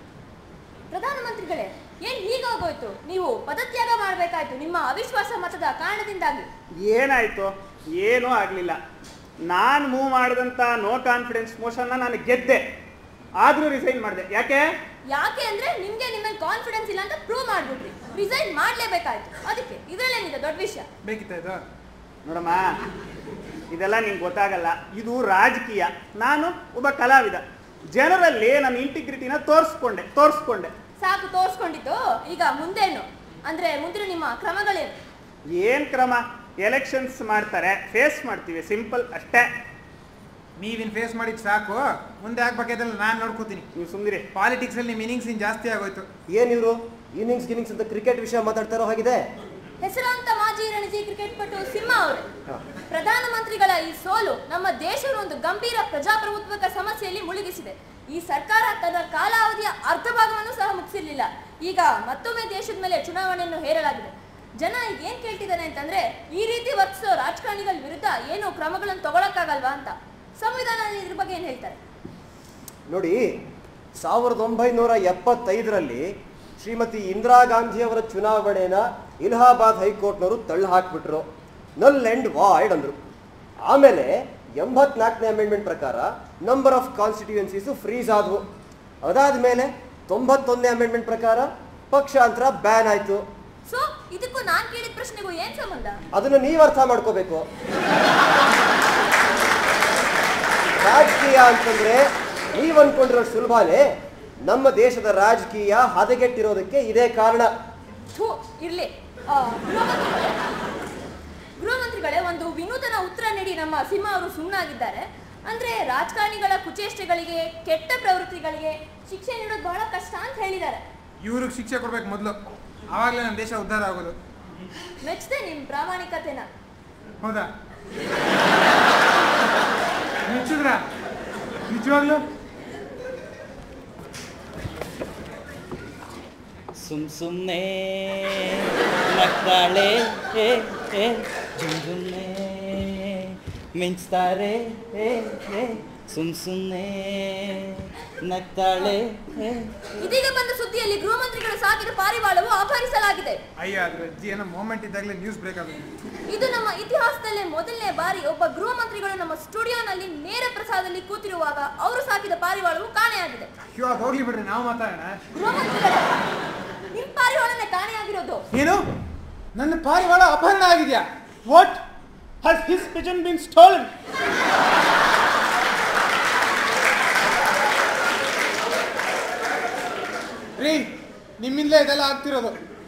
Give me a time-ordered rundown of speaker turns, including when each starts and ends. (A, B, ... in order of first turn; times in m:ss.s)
0:00.9-0:06.5 A
0:06.8-0:08.8 B
0:09.5-0:12.6 B
0:13.4-0:14.6 B
0:15.1-0:20.9 A
0:21.0-0:21.6 C
0:22.2-0:22.7 B
0:23.7-0:27.4 B
0:27.9-0:30.7 B
0:31.0-0:35.0 A
0:35.5-0:39.5 B
0:40.6-0:43.6 C
0:43.7-0:44.2 B
0:44.3-0:46.1 C
0:46.3-0:49.2 D
0:49.8-0:52.3 A
0:52.9-1:11.8 A
1:12.9-1:13.2 D
1:14.0-1:16.0 D
1:16.6-1:21.2 D
1:21.8-1:23.0 D
1:23.7-1:28.4 D
1:29.0-1:33.2 D
1:33.7-1:36.0 A
1:36.1-1:37.4 D
1:40.8-1:42.0 D
1:42.5-1:43.8 D
1:44.4-1:47.5 D
1:48.1-1:50.4 A
1:51.6-2:00.8 A
2:01.2-2:02.4 C
2:02.9-2:04.2 C
2:05.0-2:06.5 A
2:07.2-2:07.5 C
2:10.2-2:10.8 C
2:11.7-2:12.2 C
2:16.8-2:29.7 E
2:30.0-2:33.4 A
2:33.6-2:35.9 C
2:36.3-2:43.5 A
2:43.7-2:45.2 C
2:45.3-2:46.1 A
2:46.9-2:48.4 A
2:48.5-2:48.8 C
2:49.5-2:51.1 C
2:51.5-2:51.8 B
2:52.4-2:53.9 B
3:00.6-3:02.6 C